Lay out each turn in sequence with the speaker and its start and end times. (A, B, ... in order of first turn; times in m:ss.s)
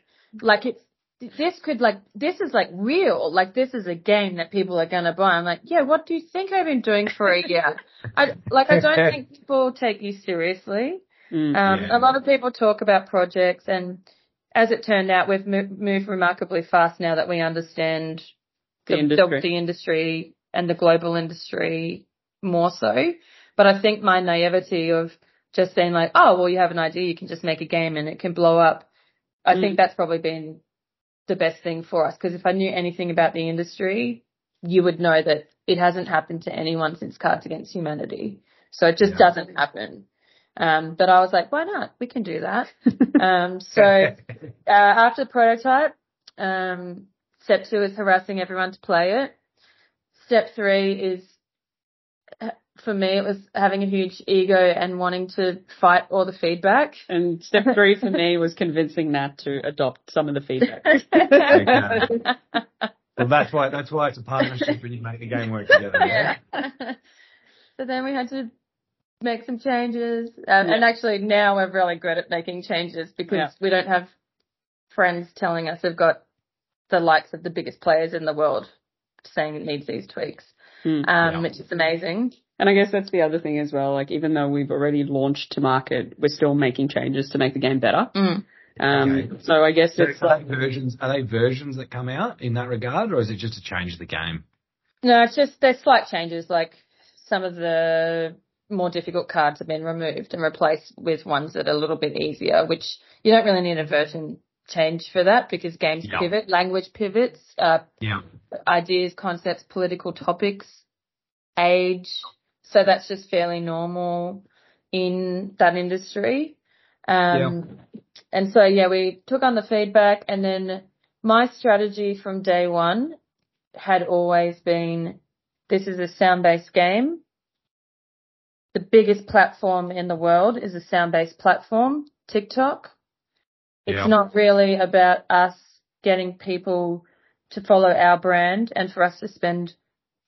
0:00.4-0:14.0 A
0:08.7-0:09.0 B
0:11.3-0:11.6 C
0:11.7-0:12.1 B
0:14.6-0:18.3 A
0:18.9-0:19.4 C
0:18.9-0:28.9 A
0:29.5-0:30.6 A
0:29.5-0:29.8 C
0:31.3-0:40.1 A
0:40.6-0:49.3 A
0:50.2-0:51.4 A
0:52.4-0:57.0 A
0:57.1-1:02.1 C
1:01.1-1:02.3 A
1:01.5-1:02.1 B
1:03.2-1:06.4 B
1:06.0-1:07.0 A
1:07.8-1:08.5 A
1:09.2-1:14.1 A
1:14.9-1:16.2 A
1:16.9-1:18.7 A
1:19.2-1:20.5 A
1:20.8-1:21.1 C
1:21.0-1:22.4 A
1:22.6-1:28.1 C
1:28.2-1:28.4 A
1:28.8-1:30.4 C
1:28.9-1:29.3 B
1:30.0-1:34.4 B
1:35.0-1:47.9 A
1:48.7-1:50.8 A
1:51.6-1:57.8 A
1:58.3-2:03.2 A
2:03.8-2:07.2 A
2:08.7-2:12.9 A
2:13.9-2:19.8 A
2:13.9-2:14.1 B